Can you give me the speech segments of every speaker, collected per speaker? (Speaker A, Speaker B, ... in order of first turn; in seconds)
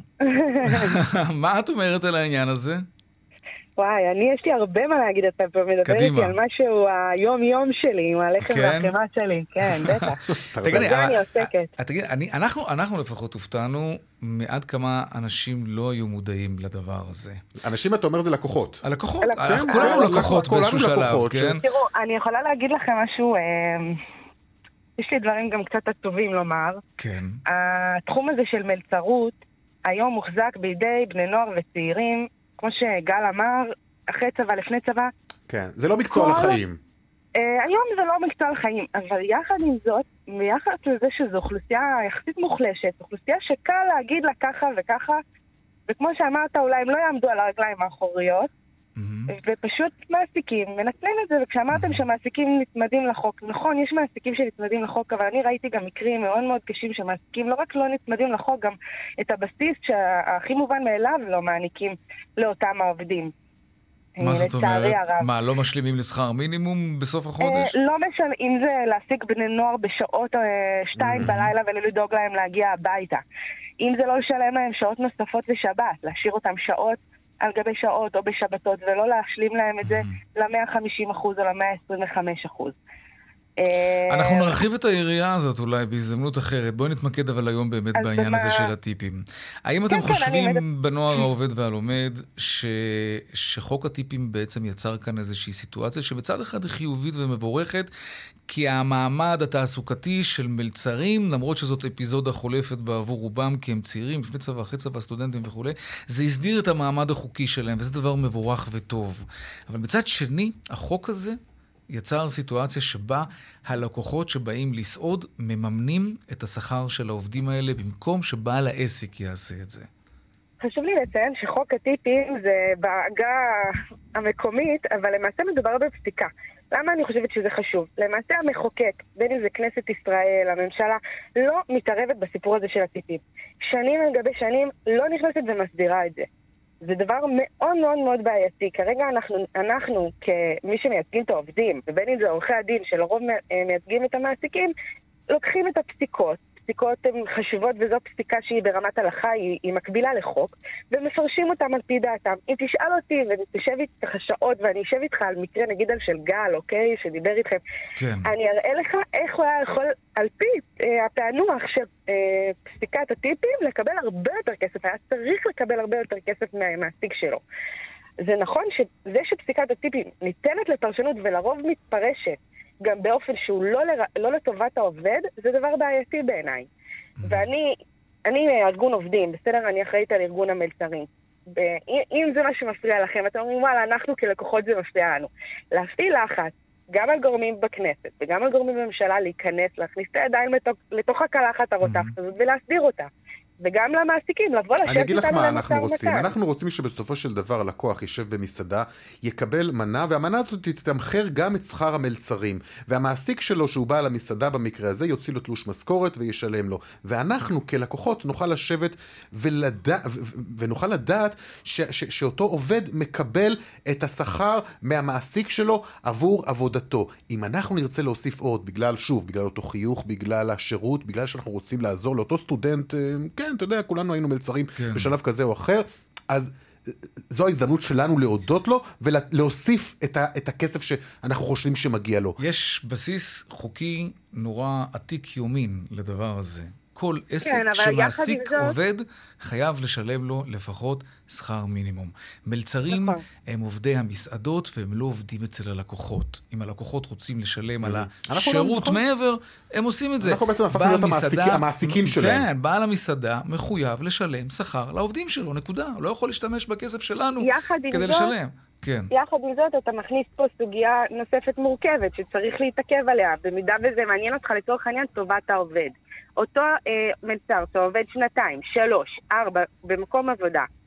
Speaker A: 0.3-0.9, 3.8-10.2, 10.7-11.7, 19.2-20.5, 21.6-24.0, 25.0-26.8, 27.5-35.1, 36.1-36.6, 37.4-45.2, 45.9-48.5, 49.3-63.3, 64.2-65.3, 67.4-73.2, 73.8-82.8, 83.6-84.6, 88.0-88.7, 89.9-90.6, 120.6-136.3, 136.8-144.7, 145.3-157.6, 158.2-167.4, 168.2-176.7, 177.2-177.7, 178.3-196.3, 237.4-238.8, 242.9-243.2, 257.4-258.3, 259.1-270.7
Speaker B: 0.7-2.8, 5.8-6.4, 8.4-8.9, 9.7-10.0, 10.6-17.4, 18.8-21.6, 27.0-27.4, 49.0-49.3, 51.7-52.0, 64.2-67.7, 71.2-71.5, 79.8-80.2, 84.1-97.9, 98.5-111.4, 111.9-119.9, 158.0-158.3, 191.8-192.1, 224.8-225.1, 232.4-259.1
Speaker C: 10.5-11.0, 17.6-18.8, 19.4-21.6, 35.5-36.8, 71.0-71.3, 194.9-232.4, 247.8-249.0, 250.2-252.5